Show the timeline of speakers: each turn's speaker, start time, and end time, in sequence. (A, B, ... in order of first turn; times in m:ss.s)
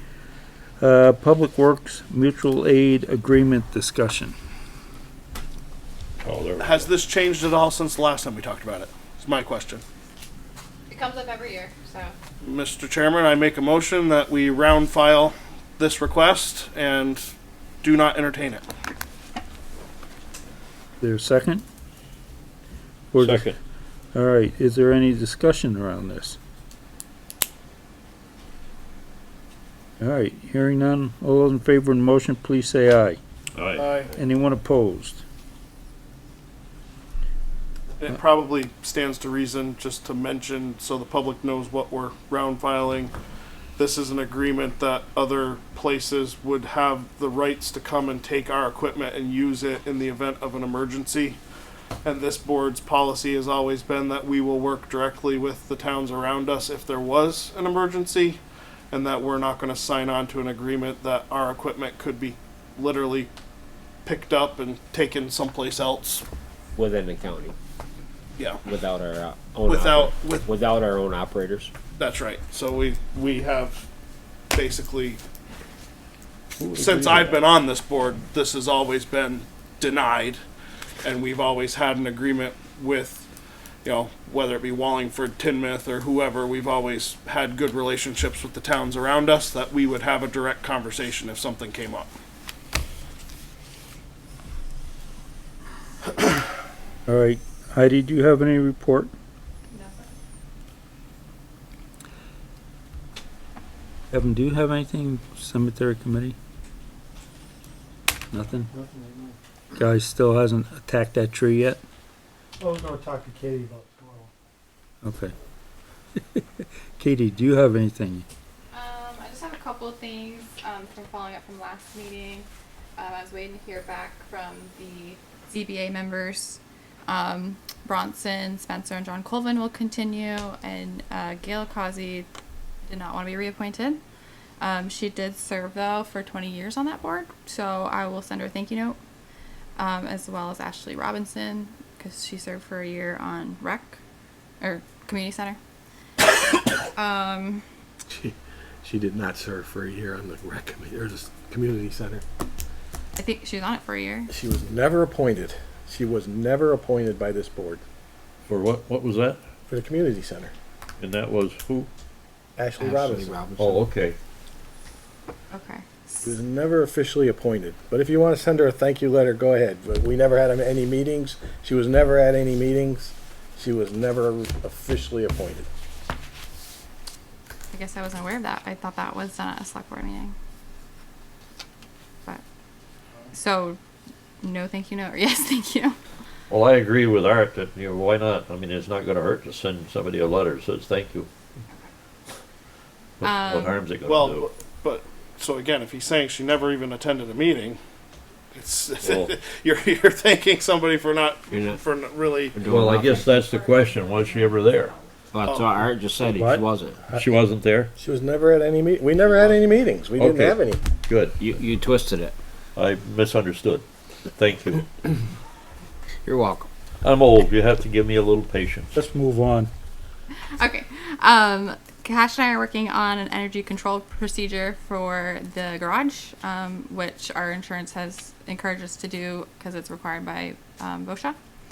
0:00.8-0:04.3 A
0:06.2-0:06.9 B
0:06.6-0:09.8 C
0:10.9-0:12.1 D
0:12.4-0:17.3 C
0:17.8-0:18.7 C
0:21.0-0:21.6 A
0:23.1-0:23.5 A
0:23.2-0:23.6 B
0:24.1-0:26.4 A
0:30.0-0:33.2 A
0:33.6-0:33.9 B
0:33.8-0:34.1 C
0:34.1-0:35.2 A
0:38.0-0:43.1 C
0:43.8-0:51.4 C
0:52.0-1:03.3 C
1:04.0-1:06.2 C
1:06.8-1:07.6 E
1:08.4-1:08.8 C
1:08.7-1:11.7 E
1:09.6-1:10.6 C
1:12.0-1:13.9 C
1:14.5-1:15.2 C
1:16.6-1:17.4 B
1:16.8-1:20.4 C
1:21.0-1:23.3 C
1:23.8-1:32.1 C
1:37.1-1:39.1 A
1:39.7-1:40.1 D
1:44.1-1:46.4 A
1:48.3-1:48.7 A
1:48.7-1:49.4 F
1:49.8-1:51.8 A
1:52.6-1:54.3 F
1:55.0-1:55.3 A
1:57.0-1:58.3 A
1:58.7-2:12.3 D
2:12.8-2:14.0 D
2:14.6-2:19.0 D
2:19.8-2:24.0 D
2:24.6-2:25.6 D
2:26.9-2:27.6 D
2:28.1-2:32.2 G
2:33.2-2:34.3 D
2:34.3-2:37.8 G
2:38.5-2:39.4 B
2:39.7-2:40.5 G
2:41.0-2:41.9 B
2:42.6-2:43.4 G
2:42.8-2:43.9 E
2:43.6-2:44.2 B
2:45.5-2:46.4 D
2:46.2-2:55.7 G
2:57.7-3:00.4 D
3:03.3-3:03.8 D
3:04.4-3:06.0 D
3:06.5-3:11.3 B
3:13.2-3:14.5 B
3:13.2-3:13.8 D
3:14.0-3:17.8 C
3:18.5-3:22.7 C
3:19.0-3:19.3 B
3:21.5-3:21.8 E
3:22.5-3:23.2 E
3:22.6-3:24.9 B
3:23.0-3:25.0 D
3:25.3-3:27.1 E
3:25.4-3:25.8 C
3:26.2-3:26.6 A
3:27.1-3:27.9 B
3:28.0-3:30.8 G
3:30.2-3:31.4 B
3:31.4-3:32.4 E
3:32.8-3:34.9 B
3:36.2-3:36.7 E
3:37.0-3:39.0 B
3:38.9-3:39.7 A
3:40.6-3:51.4 D